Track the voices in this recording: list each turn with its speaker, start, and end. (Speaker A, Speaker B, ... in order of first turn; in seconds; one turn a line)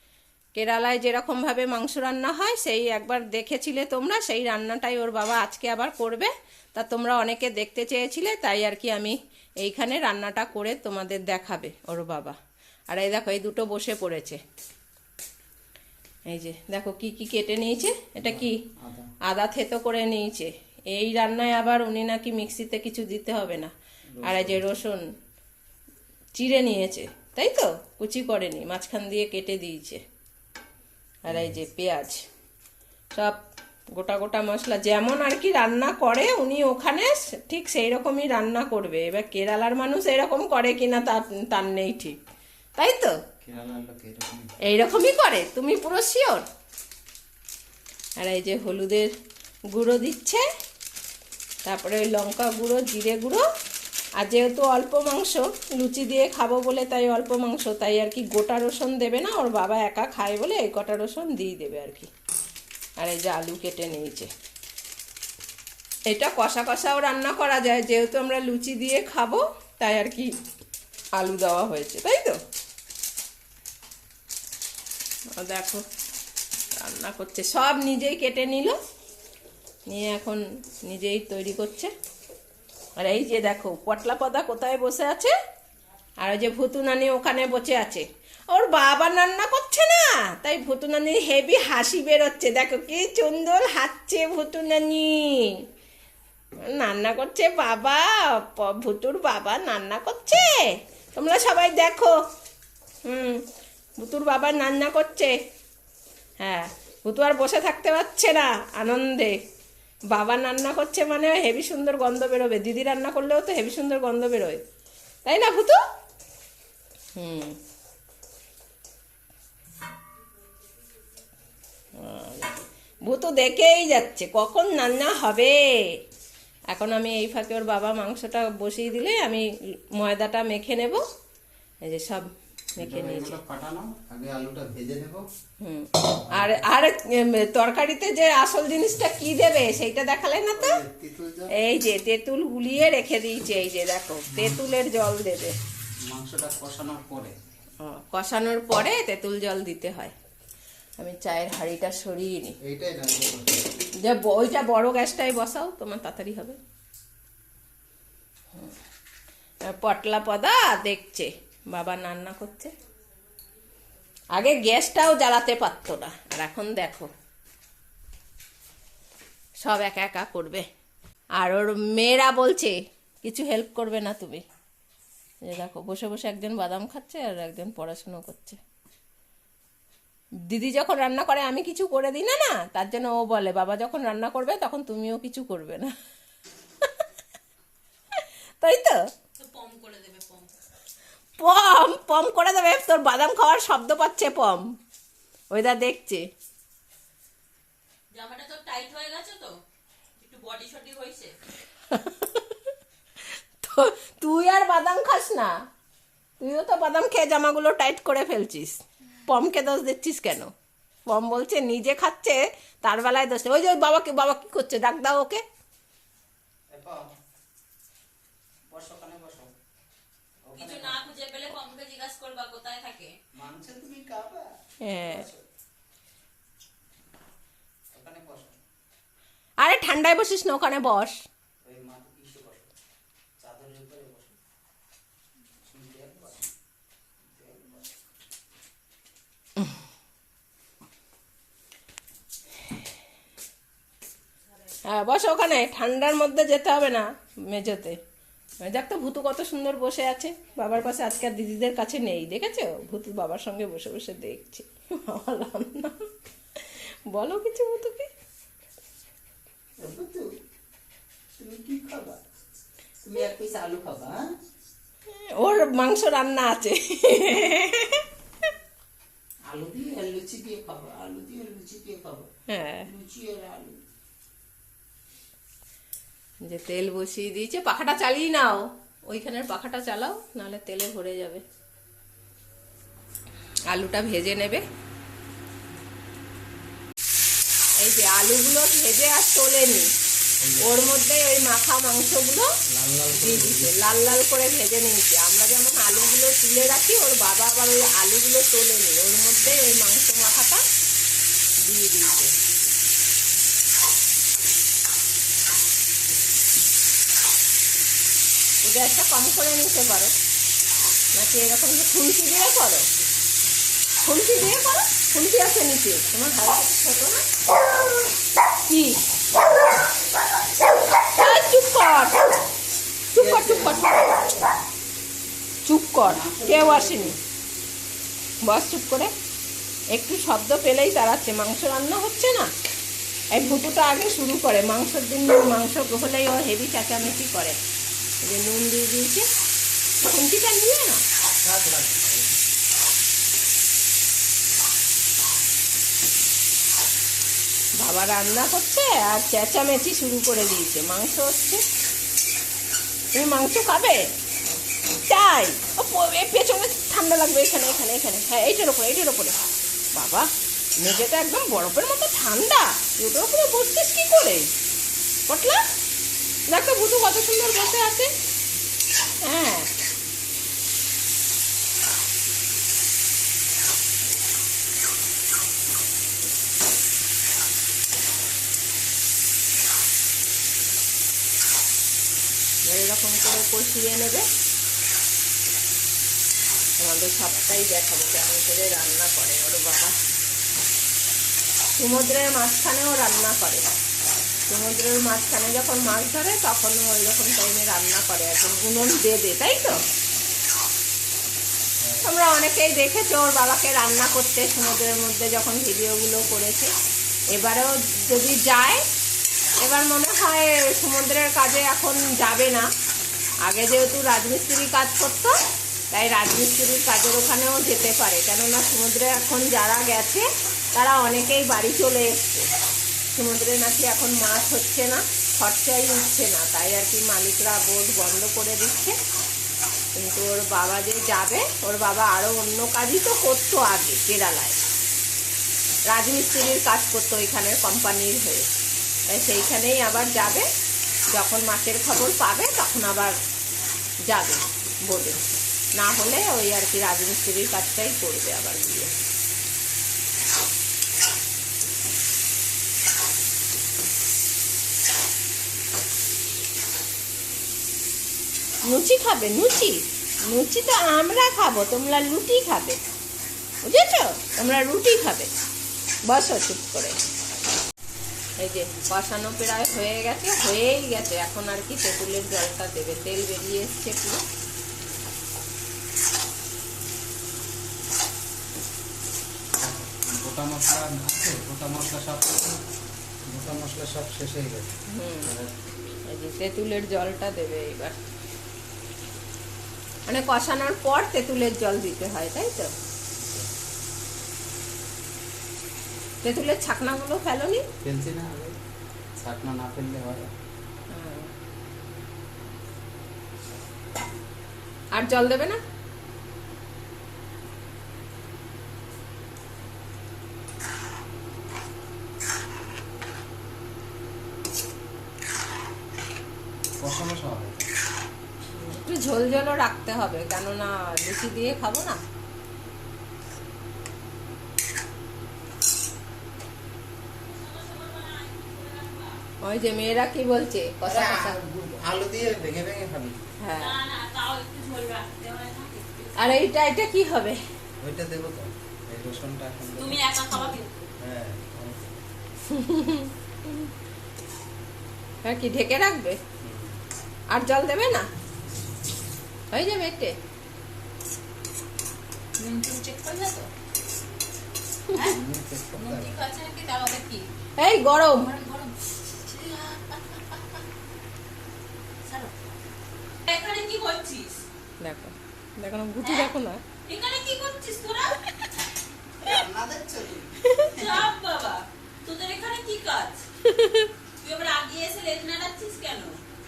Speaker A: 0.6-12.4
Speaker A: 12.9-14.4
Speaker A: 16.3-18.6
Speaker B: 18.2-19.1
Speaker A: 19.2-23.7
Speaker B: 24.2-24.6
Speaker A: 24.2-25.0
Speaker A: 26.4-30.0
Speaker A: 31.3-32.2
Speaker B: 31.3-31.6
Speaker A: 33.1-33.4
Speaker A: 33.9-42.2
Speaker A: 42.8-43.2
Speaker B: 43.4-44.5
Speaker A: 44.6-46.5
Speaker A: 48.2-49.1
Speaker A: 49.7-50.5
Speaker A: 51.6-53.4
Speaker A: 54.2-62.1
Speaker A: 63.0-64.3
Speaker A: 66.1-70.3
Speaker A: 71.2-72.4
Speaker A: 75.3-75.8
Speaker A: 76.7-78.8
Speaker A: 79.9-81.9
Speaker A: 83.0-85.3
Speaker A: 86.2-95.6
Speaker A: 96.6-102.1
Speaker A: 103.1-103.5
Speaker A: 104.0-105.4
Speaker A: 106.4-109.4
Speaker A: 110.1-114.6
Speaker A: 115.2-115.8
Speaker A: 117.2-117.6
Speaker A: 122.0-125.6
Speaker A: 126.7-129.4
Speaker A: 130.0-131.0
Speaker A: 131.9-133.4
Speaker B: 132.8-135.2
Speaker A: 135.6-140.8
Speaker B: 136.3-136.7
Speaker B: 140.6-141.5
Speaker A: 141.6-145.6
Speaker B: 144.3-144.6
Speaker B: 146.1-147.3
Speaker A: 147.8-150.1
Speaker A: 151.0-152.6
Speaker B: 152.6-153.8
Speaker A: 154.0-156.6
Speaker A: 159.7-162.7
Speaker A: 164.3-167.1
Speaker A: 169.6-170.7
Speaker A: 171.4-174.4
Speaker A: 175.5-178.6
Speaker A: 180.5-185.9
Speaker A: 188.2-189.0
Speaker C: 189.4-190.5
Speaker A: 191.4-194.7
Speaker A: 195.5-196.2
Speaker C: 198.1-199.5
Speaker C: 200.2-201.3
Speaker A: 201.9-202.7
Speaker A: 203.3-205.6
Speaker A: 206.4-210.5
Speaker A: 211.1-215.4
Speaker B: 216.7-217.1
Speaker B: 218.7-219.5
Speaker B: 220.4-221.0
Speaker C: 220.6-223.2
Speaker B: 223.3-225.4
Speaker A: 224.8-225.3
Speaker B: 227.9-228.6
Speaker A: 229.6-231.2
Speaker B: 231.7-232.7
Speaker B: 233.4-234.4
Speaker B: 235.7-236.5
Speaker B: 237.2-237.9
Speaker A: 244.8-248.0
Speaker A: 248.6-258.1
Speaker B: 259.8-260.3
Speaker B: 261.4-262.2
Speaker B: 263.0-264.3
Speaker A: 265.1-268.1
Speaker B: 269.5-272.3
Speaker A: 272.5-272.9
Speaker B: 272.9-273.8
Speaker A: 276.4-281.4
Speaker A: 283.7-284.6
Speaker A: 287.8-289.9
Speaker B: 290.4-290.7
Speaker A: 290.6-292.5
Speaker B: 292.7-293.8
Speaker A: 293.1-300.6
Speaker A: 301.6-302.3
Speaker A: 308.6-310.1
Speaker A: 311.1-312.9
Speaker A: 314.0-317.2
Speaker A: 318.7-319.0
Speaker A: 321.0-322.4
Speaker A: 323.1-324.4
Speaker B: 323.2-324.2
Speaker A: 325.7-327.1
Speaker B: 326.1-327.2
Speaker A: 328.4-329.1
Speaker A: 329.9-332.5
Speaker A: 333.3-337.6
Speaker A: 338.2-339.3
Speaker A: 340.0-341.0
Speaker B: 341.4-342.4
Speaker A: 347.8-351.6
Speaker A: 353.1-354.1
Speaker A: 355.1-359.4
Speaker A: 359.9-364.5
Speaker A: 365.3-365.6
Speaker A: 366.5-368.1
Speaker A: 369.2-369.7
Speaker A: 382.7-384.2
Speaker A: 386.8-390.0
Speaker A: 391.8-393.7
Speaker A: 394.5-399.8
Speaker B: 401.8-402.1
Speaker A: 402.0-406.7
Speaker A: 407.3-408.8
Speaker A: 409.6-412.7
Speaker A: 413.4-415.4
Speaker A: 415.9-422.5
Speaker A: 423.1-429.0
Speaker A: 430.0-434.6
Speaker A: 435.9-438.5
Speaker A: 439.1-440.5
Speaker A: 441.1-443.2
Speaker A: 444.1-445.2
Speaker A: 445.8-448.9
Speaker A: 458.7-462.8
Speaker A: 463.6-465.3
Speaker A: 466.1-467.0
Speaker A: 468.4-474.2
Speaker B: 479.6-482.6
Speaker B: 483.3-485.5
Speaker A: 484.9-485.3
Speaker A: 486.1-488.0
Speaker A: 490.1-492.7
Speaker B: 493.1-493.5
Speaker A: 496.2-497.6
Speaker B: 497.8-498.6
Speaker B: 499.2-500.3
Speaker A: 500.9-501.3
Speaker A: 504.9-505.6
Speaker B: 516.8-517.7
Speaker A: 518.5-522.0
Speaker C: 527.2-529.2
Speaker A: 529.4-531.4
Speaker B: 530.9-533.2
Speaker A: 533.4-533.8
Speaker C: 533.6-536.3
Speaker A: 536.2-537.4
Speaker B: 537.8-540.0
Speaker C: 539.8-540.8
Speaker B: 541.0-542.0
Speaker A: 542.5-543.6
Speaker A: 545.2-546.2
Speaker B: 546.4-546.7
Speaker A: 547.3-548.1
Speaker A: 549.5-550.2
Speaker C: 552.4-553.5
Speaker C: 554.9-555.2
Speaker B: 554.9-556.2
Speaker C: 555.8-557.3
Speaker A: 557.6-558.3
Speaker C: 558.1-560.6
Speaker C: 562.0-562.3
Speaker C: 563.3-564.4
Speaker A: 564.8-566.6
Speaker C: 566.0-566.3
Speaker C: 566.9-568.2
Speaker B: 569.2-570.8
Speaker A: 570.4-570.8
Speaker C: 570.7-573.2
Speaker A: 573.4-573.9
Speaker C: 574.2-576.2